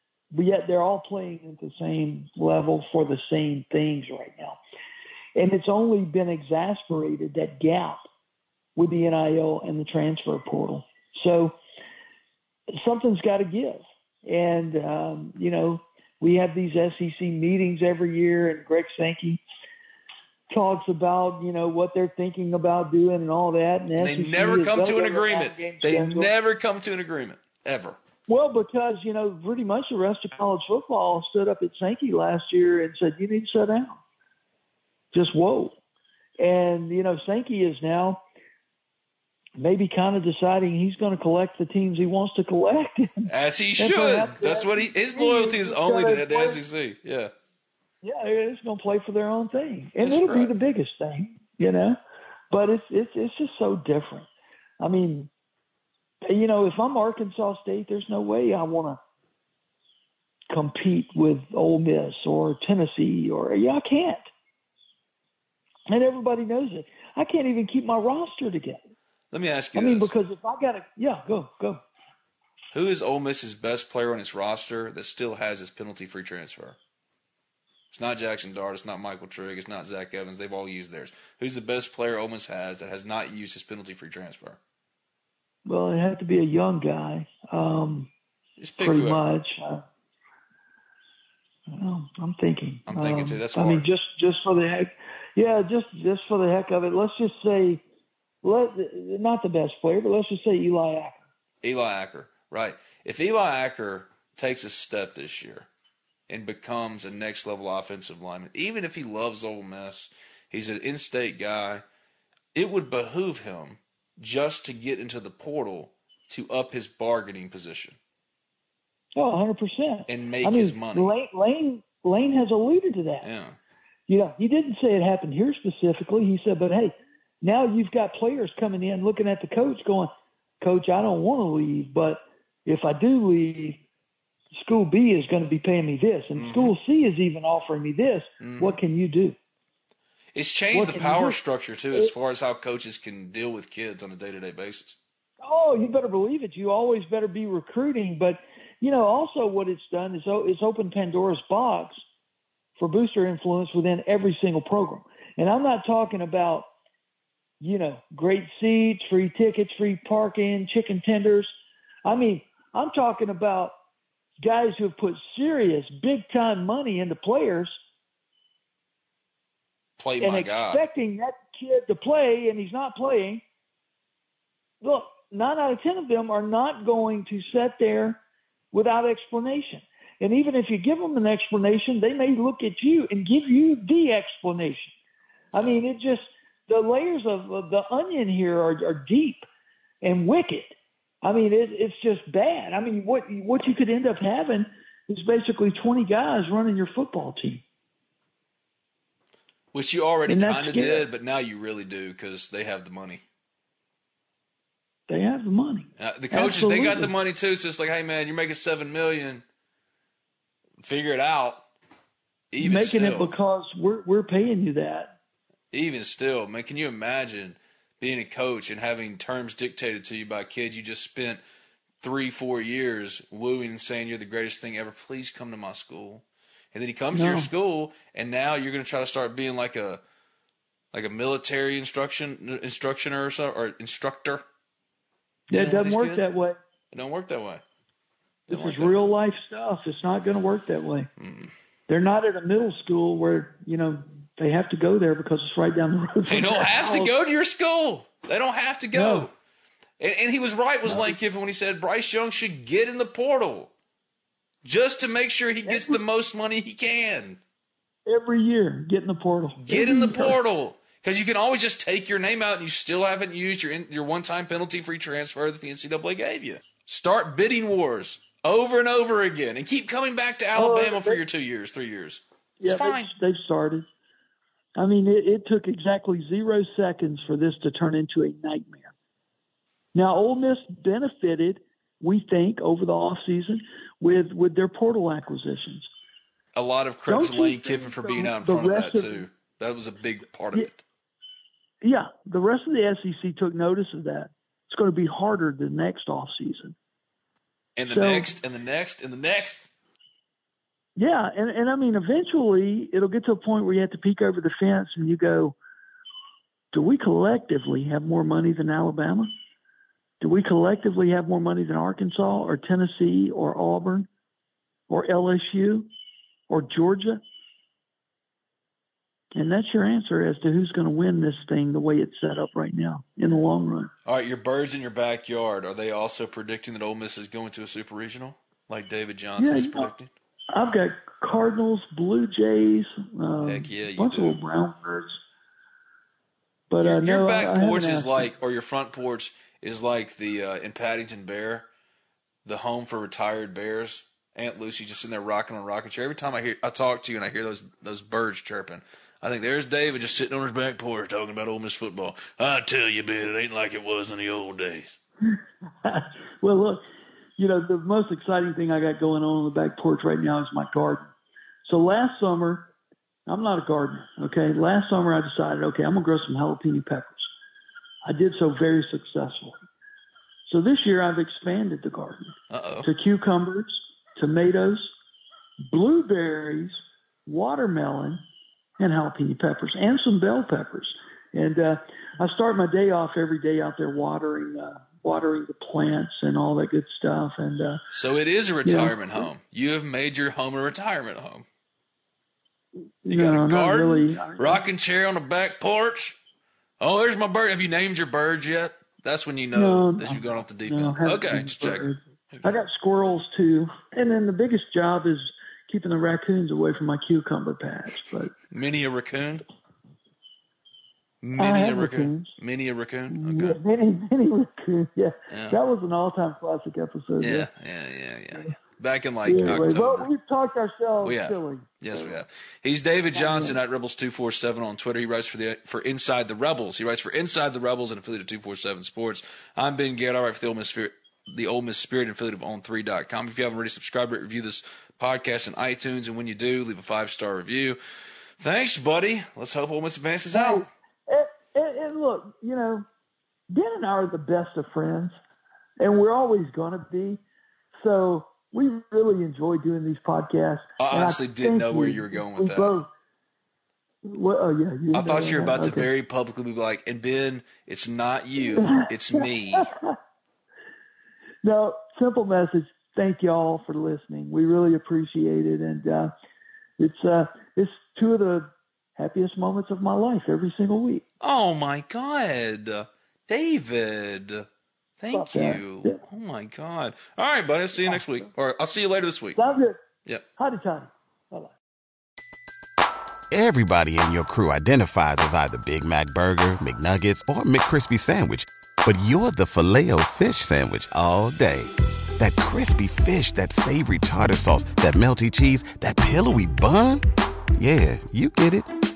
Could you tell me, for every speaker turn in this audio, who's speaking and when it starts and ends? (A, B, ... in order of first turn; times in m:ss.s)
0:00.3-0:04.6 A
0:05.4-0:08.0 A
0:08.8-0:11.6 A
0:12.7-0:19.4 A
0:20.5-0:26.3 A
0:24.0-0:28.0 B
0:28.3-0:34.0 A
0:35.1-0:35.8 A
0:36.4-0:38.2 A
0:39.6-0:46.6 A
0:43.3-0:47.3 B
0:48.0-0:52.0 A
0:50.0-0:50.5 B
0:52.5-0:54.3 A
0:54.8-0:55.3 A
0:56.2-0:59.0 A
1:00.5-1:04.3 A
1:05.9-1:08.8 A
1:09.3-1:10.1 B
1:09.7-1:11.8 A
1:12.7-1:16.8 B
1:17.9-1:24.6 B
1:25.6-1:28.1 A
1:28.6-1:29.2 B
1:28.8-1:29.8 A
1:31.7-1:37.8 A
1:32.9-1:33.9 B
1:38.4-1:41.2 A
1:41.6-1:45.7 B
1:46.3-1:51.8 B
1:52.5-1:58.0 B
1:59.2-2:03.3 A
2:00.1-2:01.1 B
2:03.2-2:03.6 B
2:04.1-2:13.8 A
2:14.5-2:19.4 A
2:16.4-2:16.7 B
2:18.4-2:18.8 B
2:20.3-2:25.0 B
2:20.7-2:21.4 A
2:25.4-2:32.0 A
2:32.8-2:36.7 A
2:37.6-2:41.5 A
2:42.0-2:43.7 A
2:44.4-2:47.7 A
2:50.0-2:50.8 B
2:50.2-2:53.4 A
2:54.8-2:58.2 A
2:58.7-3:04.9 A
3:05.5-3:09.4 A
3:05.5-3:05.8 B
3:10.0-3:17.6 A
3:19.7-3:23.2 B
3:20.3-3:21.0 A
3:25.1-3:27.1 A
3:26.0-3:29.4 B
3:30.8-3:31.6 B
3:32.5-3:33.3 B
3:32.6-3:35.1 A
3:35.7-3:41.4 B
3:42.0-3:50.0 B
3:47.1-3:47.5 A
3:50.9-3:54.4 B
3:55.5-3:56.3 B
3:55.5-3:56.6 A
3:56.9-3:57.6 B
3:58.5-3:59.0 B
3:58.5-4:01.1 A
4:01.2-4:01.5 B
4:01.9-4:07.1 A
4:06.2-4:09.3 B
4:08.9-4:09.3 A
4:10.0-4:13.7 B
4:10.8-4:11.2 A
4:14.6-4:17.4 B
4:15.6-4:16.0 A
4:18.0-4:20.4 A
4:19.6-4:33.1 B
4:30.5-4:31.2 A
4:32.6-4:33.9 A
4:34.8-4:38.9 A
4:39.9-4:45.9 A
4:46.5-4:50.8 B
4:47.1-4:49.2 A
4:51.8-4:56.7 A
4:57.8-4:59.7 B
4:57.9-4:58.3 A
5:01.0-5:05.6 A
5:06.7-5:09.3 A
5:10.2-5:14.1 A
5:14.9-5:15.9 A
5:16.5-5:17.2 A
5:19.3-5:23.9 A
5:24.0-5:30.1 B
5:29.4-5:29.9 A
5:30.5-5:35.2 A
5:33.4-5:34.4 B
5:36.7-5:38.3 A
5:36.8-5:41.7 B
5:42.4-5:55.0 B
5:55.8-5:56.8 A
5:57.4-6:01.1 A
6:01.6-6:02.7 A
6:03.3-6:07.3 A
6:08.0-6:09.6 A
6:10.5-6:14.9 A
6:12.5-6:12.9 B
6:15.7-6:18.2 A
6:18.8-6:27.8 A
6:27.9-6:31.4 B
6:28.6-6:29.3 A
6:33.0-6:34.6 A
6:33.1-6:36.2 B
6:36.8-6:42.5 B
6:39.5-6:48.3 A
6:48.5-6:49.4 B
6:51.2-6:53.6 B
6:51.4-6:52.3 A
6:53.1-6:57.5 A
6:55.3-6:55.6 B
6:57.2-7:00.1 B
6:59.2-7:02.2 A
7:01.0-7:17.8 B
7:03.1-7:03.6 A
7:18.4-7:20.7 B
7:20.3-7:22.8 A
7:23.5-7:25.2 A
7:25.8-7:27.2 A
7:27.7-7:32.9 A
7:30.8-7:32.8 B
7:34.0-7:35.9 A
7:34.9-7:39.7 B
7:38.6-7:40.0 A
7:41.4-7:46.1 A
7:46.8-7:51.0 A
7:51.2-7:54.5 B
7:55.0-7:59.4 B
7:55.1-7:56.0 A
7:59.4-7:59.8 A
8:00.4-8:01.5 A
8:03.3-8:17.0 C
8:17.6-8:18.7 C